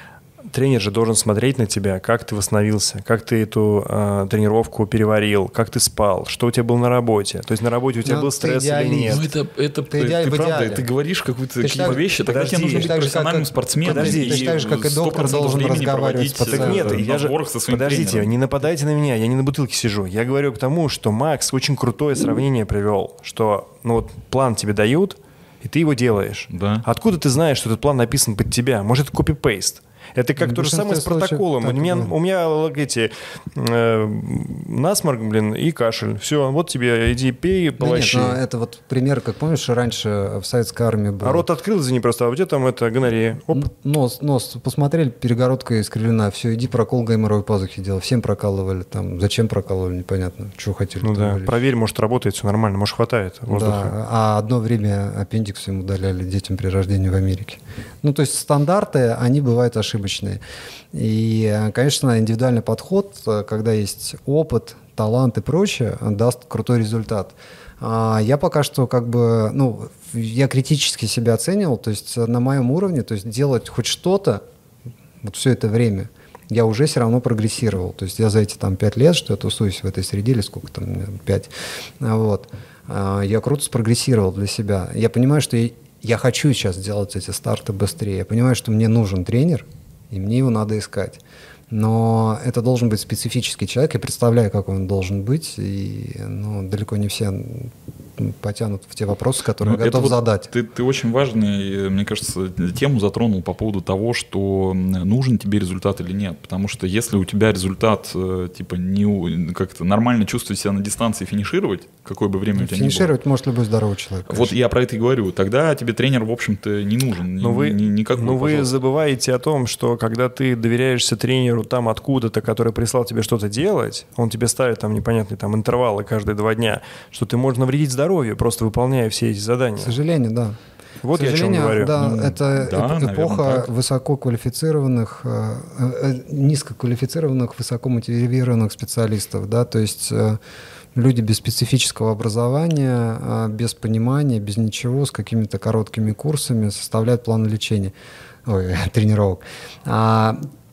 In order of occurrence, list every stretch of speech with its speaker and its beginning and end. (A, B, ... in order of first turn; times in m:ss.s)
0:00.5-0:09.2 A
0:08.0-0:09.2 B
0:09.1-0:18.3 C
0:09.9-0:10.9 B
0:11.6-0:17.0 B
0:11.8-0:12.9 A
0:13.8-0:14.5 A
0:16.5-0:38.4 A
0:26.5-0:26.8 C
0:30.4-0:32.2 B
0:37.8-0:41.5 B
0:41.2-0:43.7 A
0:43.5-0:51.6 B
0:51.0-0:53.9 A
0:53.5-1:00.4 B
1:00.9-1:14.4 B
1:15.2-1:40.5 B
1:39.6-1:53.1 C
1:52.6-1:54.6 B
1:54.3-1:58.7 C
1:57.4-2:09.9 A
2:09.8-2:10.6 B
2:11.0-2:12.0 A
2:11.1-2:20.4 B
2:12.0-2:13.7 C
2:21.0-2:27.9 B
2:28.4-2:30.4 B